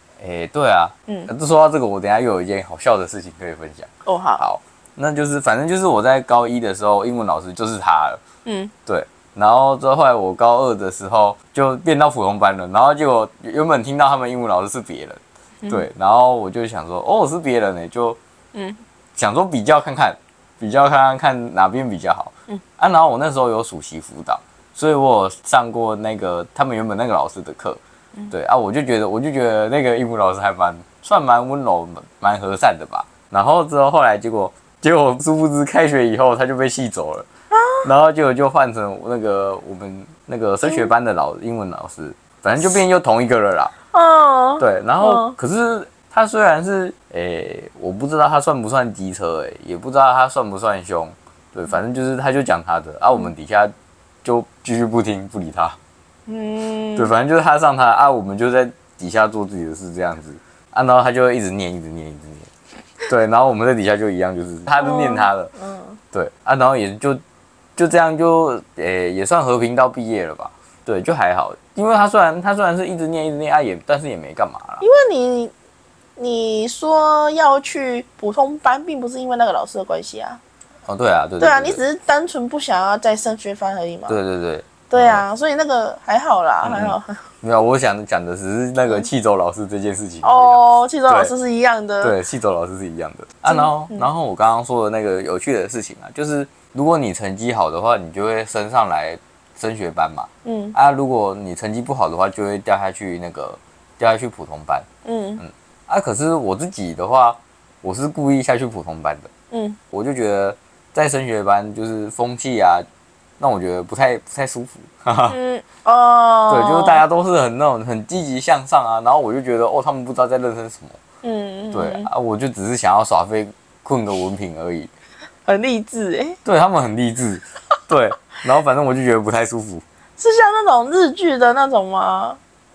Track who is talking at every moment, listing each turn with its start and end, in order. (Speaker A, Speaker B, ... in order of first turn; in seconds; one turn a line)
Speaker A: 0.2-8.2
Speaker B: 4.0-4.4
Speaker B: 8.4-8.7
Speaker A: 8.8-18.2
Speaker B: 18.5-18.8
Speaker A: 19.1-27.8
Speaker A: 28.3-37.3
Speaker B: 37.5-37.9
Speaker A: 37.8-43.7
Speaker B: 40.6-40.9
Speaker B: 43.9-45.4
Speaker A: 44.6-53.7
Speaker A: 54.2-55.8
Speaker B: 56.3-57.1
Speaker A: 57.0-62.5
Speaker A: 63.0-65.5
Speaker B: 64.8-66.0
Speaker A: 66.1-67.2
Speaker A: 67.8-74.8
Speaker B: 74.8-75.5
Speaker B: 76.2-80.4
Speaker A: 80.8-81.8
Speaker B: 81.4-84.2
Speaker A: 84.1-85.2
Speaker B: 84.9-87.2
Speaker A: 86.6-91.3
Speaker B: 90.2-92.2
Speaker A: 92.0-104.8
Speaker B: 93.5-94.1
Speaker B: 100.4-100.8
Speaker B: 105.0-105.4
Speaker A: 105.4-109.3
Speaker B: 109.5-109.8
Speaker A: 109.9-112.8
Speaker A: 113.4-115.3
Speaker B: 115.3-117.0
Speaker A: 116.5-121.0
Speaker B: 121.2-122.1
Speaker A: 121.7-124.9
Speaker B: 125.5-126.4
Speaker A: 126.4-129.8
Speaker B: 130.2-132.4